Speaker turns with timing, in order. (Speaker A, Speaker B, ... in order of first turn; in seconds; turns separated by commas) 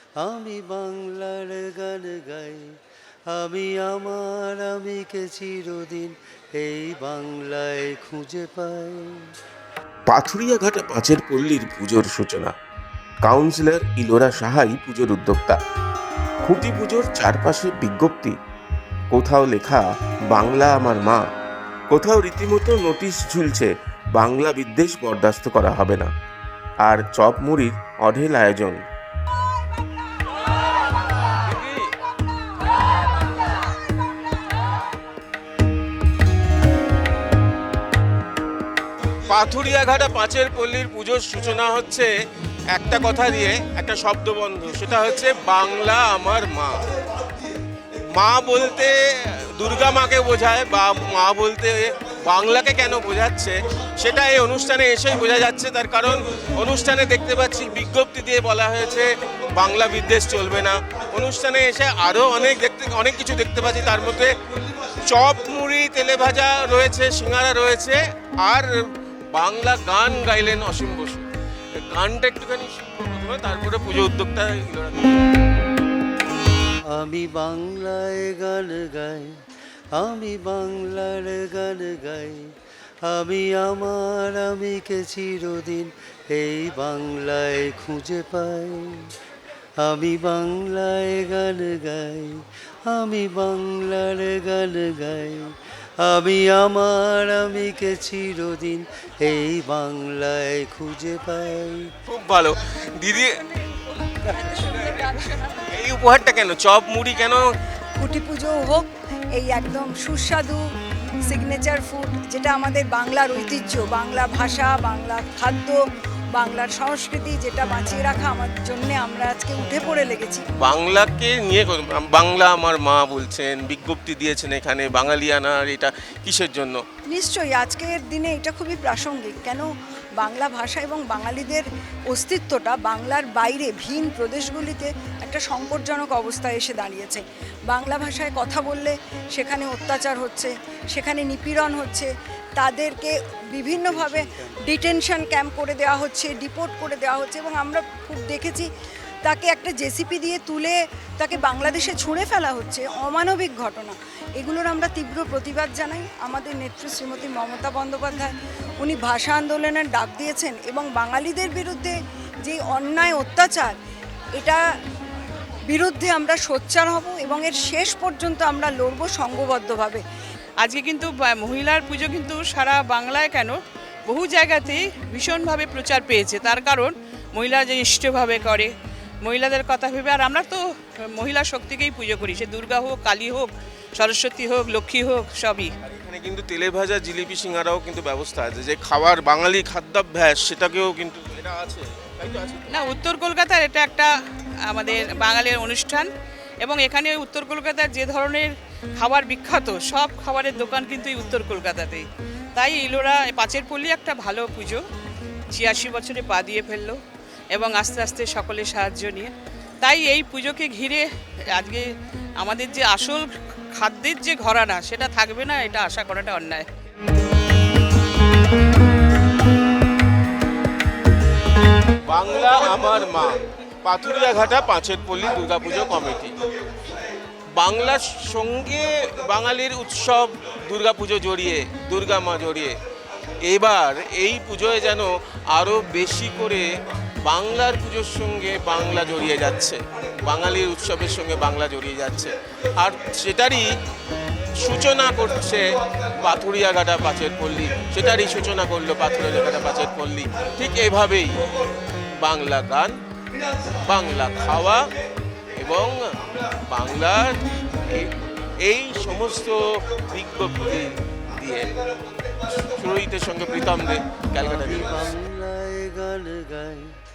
Speaker A: 0.2-2.7, Speaker A: 3.3-9.2, Speaker B: 10.1-12.5, Speaker B: 13.2-15.6, Speaker B: 16.4-18.3, Speaker B: 19.1-21.2, Speaker B: 21.9-26.1, Speaker B: 26.8-28.8, Speaker B: 31.4-31.9, Speaker B: 39.3-42.1, Speaker B: 42.7-46.9, Speaker B: 48.2-68.8, Speaker B: 69.3-75.3, Speaker A: 76.9-79.4, Speaker A: 80.0-82.5, Speaker A: 83.0-89.1, Speaker A: 89.8-101.9, Speaker B: 102.1-103.4, Speaker C: 104.2-105.6, Speaker B: 104.3-107.5, Speaker C: 108.0-108.9, Speaker C: 109.4-110.6, Speaker C: 111.3-115.8, Speaker C: 116.3-120.4, Speaker B: 120.6-126.8, Speaker C: 127.1-129.7, Speaker C: 130.2-148.7, Speaker A: 143.8-144.7, Speaker C: 149.2-163.8, Speaker C: 164.4-164.6, Speaker C: 165.7-170.0, Speaker D: 170.6-173.6, Speaker D: 174.1-178.7, Speaker D: 179.2-180.6, Speaker D: 181.1-185.7, Speaker B: 185.8-192.8, Speaker D: 192.7-194.1, Speaker D: 194.7-196.1, Speaker D: 196.6-204.8, Speaker D: 205.5-207.0, Speaker D: 207.5-211.8, Speaker D: 212.4-216.7, Speaker B: 222.1-226.3, Speaker B: 227.6-232.8, Speaker B: 233.4-236.7, Speaker B: 237.3-243.7, Speaker B: 244.6-251.5, Speaker B: 252.2-252.9, Speaker B: 253.7-254.8, Speaker B: 255.5-261.7, Speaker B: 262.5-265.1, Speaker A: 264.4-267.0